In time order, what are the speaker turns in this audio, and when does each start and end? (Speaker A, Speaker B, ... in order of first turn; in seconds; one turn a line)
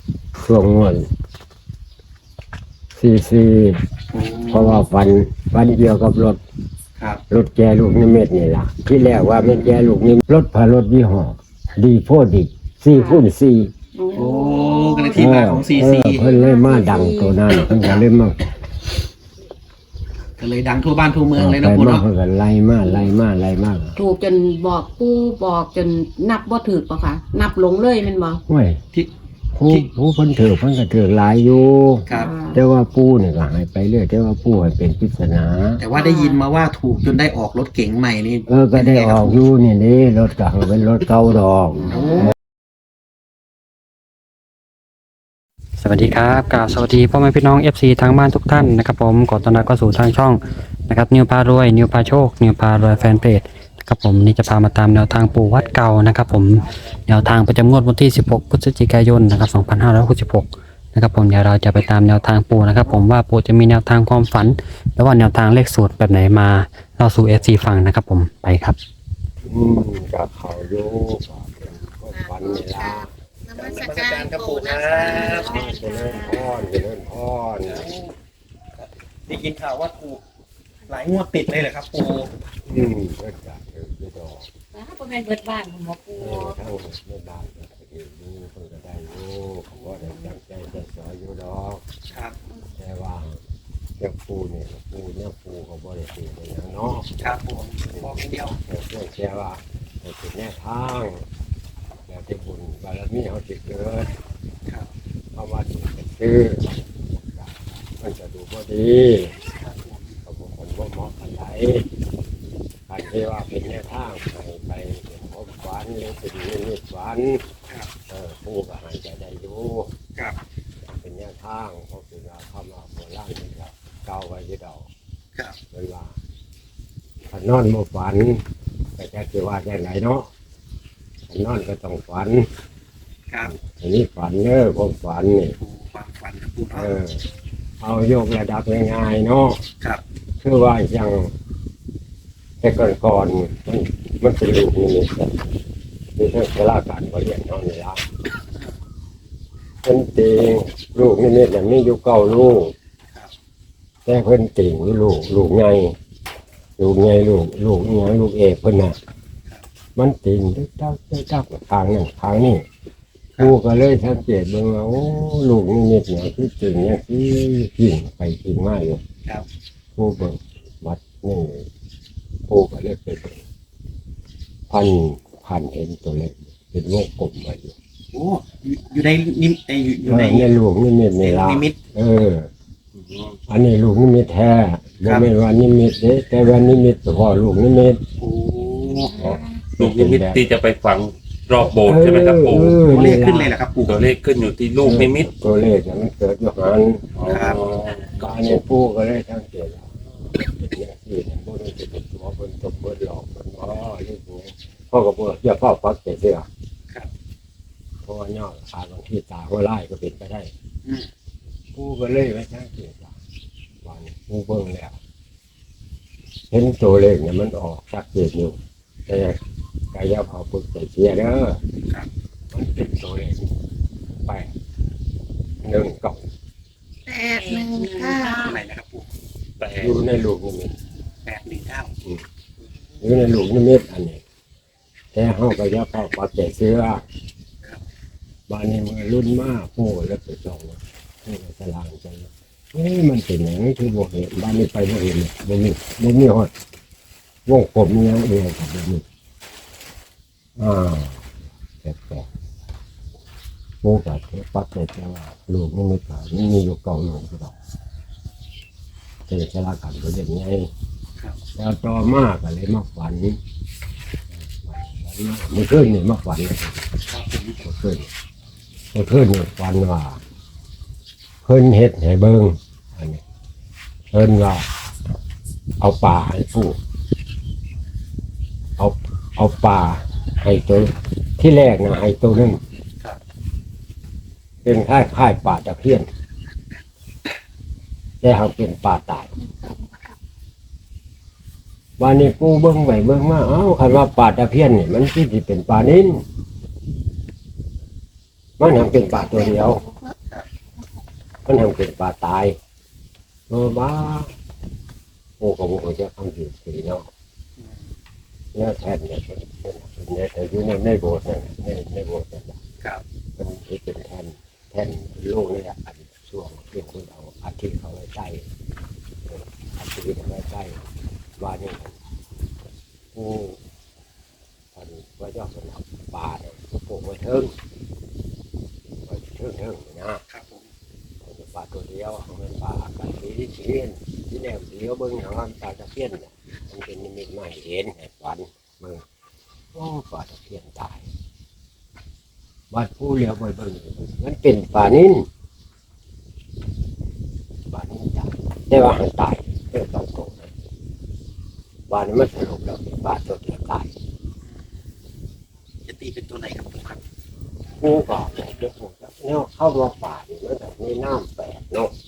Speaker A: 0.3-1.1
Speaker A: 2.9-3.8
Speaker B: 4.1-4.8
Speaker A: 4.5-6.4
Speaker A: 7.3-13.7
Speaker C: 12.9-13.2
Speaker C: 13.9-15.2
Speaker B: 14.1-16.3
Speaker A: 15.1-18.5
Speaker C: 16.1-17.6
Speaker B: 20.4-22.0
Speaker A: 21.4-24.0
Speaker C: 24.0-28.4
Speaker A: 28.5-28.8
Speaker A: 29.6-35.8
Speaker B: 32.1-32.3
Speaker C: 32.1-32.6
Speaker B: 35.8-39.4
Speaker C: 35.9-36.4
Speaker A: 38.5-42.3
Speaker B: 41.9-42.3
Speaker C: 41.9-42.3
Speaker D: 45.8-68.8
Speaker A: 69.5-73.1
Speaker B: 73.5-75.7
Speaker E: 73.6-75.2
Speaker A: 75.0-77.9
Speaker E: 75.7-76.4
Speaker B: 77.7-78.1
Speaker B: 78.8-80.2
Speaker B: 80.9-82.3
Speaker A: 82.7-84.5
Speaker E: 84.8-86.1
Speaker A: 86.2-91.9
Speaker B: 92.1-92.4
Speaker A: 92.8-93.4
Speaker A: 94.0-97.1
Speaker B: 97.2-98.6
Speaker A: 97.9-101.2
Speaker A: 102.1-104.1
Speaker A: 105.3-109.3
Speaker B: 109.5-110.2
Speaker A: 110.2-111.9
Speaker A: 112.9-117.5
Speaker A: 118.1-119.9
Speaker A: 120.9-124.9
Speaker A: 125.7-126.2
Speaker A: 127.3-128.4
Speaker A: 129.0-130.3
Speaker A: 131.3-132.5
Speaker A: 133.5-135.6
Speaker B: 135.6-136.9
Speaker A: 136.7-137.3
Speaker A: 137.8-139.6
Speaker A: 140.4-141.3
Speaker A: 142.6-145.4
Speaker A: 146.2-148.1
Speaker A: 149.8-152.7
Speaker A: 154.1-155.9
Speaker A: 156.8-159.0
Speaker A: 160.0-162.7
Speaker A: 163.4-169.0
Speaker A: 170.0-171.7
Speaker A: 172.5-173.4
Speaker A: 174.7-177.8
Speaker B: 178.1-180.5
Speaker A: 180.1-182.5
Speaker B: 181.2-181.8
Speaker A: 183.5-188.0
Speaker B: 185.1-185.3
Speaker B: 188.2-189.4
Speaker A: 189.1-190.5
Speaker F: 189.8-193.1
Speaker A: 191.8-193.5
Speaker B: 192.9-194.0
Speaker F: 193.9-195.3
Speaker A: 194.8-206.5
Speaker F: 197.2-197.5
Speaker B: 197.3-197.6
Speaker A: 208.0-210.5
Speaker A: 211.7-213.2
Speaker A: 213.8-215.0
Speaker A: 216.5-219.4
Speaker A: 219.9-221.6
Speaker A: 222.5-223.5
Speaker A: 224.2-224.6
Speaker A: 225.6-226.2
Speaker C: 227.2-228.6
Speaker E: 227.4-228.4
Speaker B: 228.4-229.1
Speaker F: 229.6-229.9
Speaker A: 229.8-230.8
Speaker B: 231.2-231.9
Speaker A: 233.0-234.2
Speaker A: 235.1-237.0
Speaker A: 238.5-246.5
Speaker A: 247.5-249.1
Speaker A: 250.6-251.3
Speaker A: 251.8-252.3
Speaker A: 253.8-257.5
Speaker A: 259.3-260.7
Speaker A: 261.6-263.4
Speaker A: 264.4-266.9
Speaker B: 267.1-267.6
Speaker A: 267.6-268.1
Speaker A: 268.9-270.2
Speaker A: 271.4-273.2
Speaker A: 274.1-274.7
Speaker A: 275.8-276.8
Speaker A: 278.8-282.6
Speaker A: 284.6-286.1
Speaker A: 288.2-289.3
Speaker A: 292.0-296.2
Speaker A: 298.6-299.9
Speaker A: 301.4-302.6
Speaker A: 303.5-304.3
Speaker A: 305.4-307.1
Speaker A: 308.6-312.6
Speaker A: 313.4-318.5
Speaker A: 319.3-320.8
Speaker A: 321.4-322.0
Speaker A: 323.1-323.6
Speaker A: 324.8-327.5
Speaker A: 329.1-330.2
Speaker B: 330.3-330.7
Speaker A: 331.2-339.1
Speaker A: 339.7-341.1
Speaker A: 342.7-345.3
Speaker A: 347.7-350.5
Speaker A: 351.9-353.9
Speaker B: 355.9-357.0
Speaker A: 357.8-361.9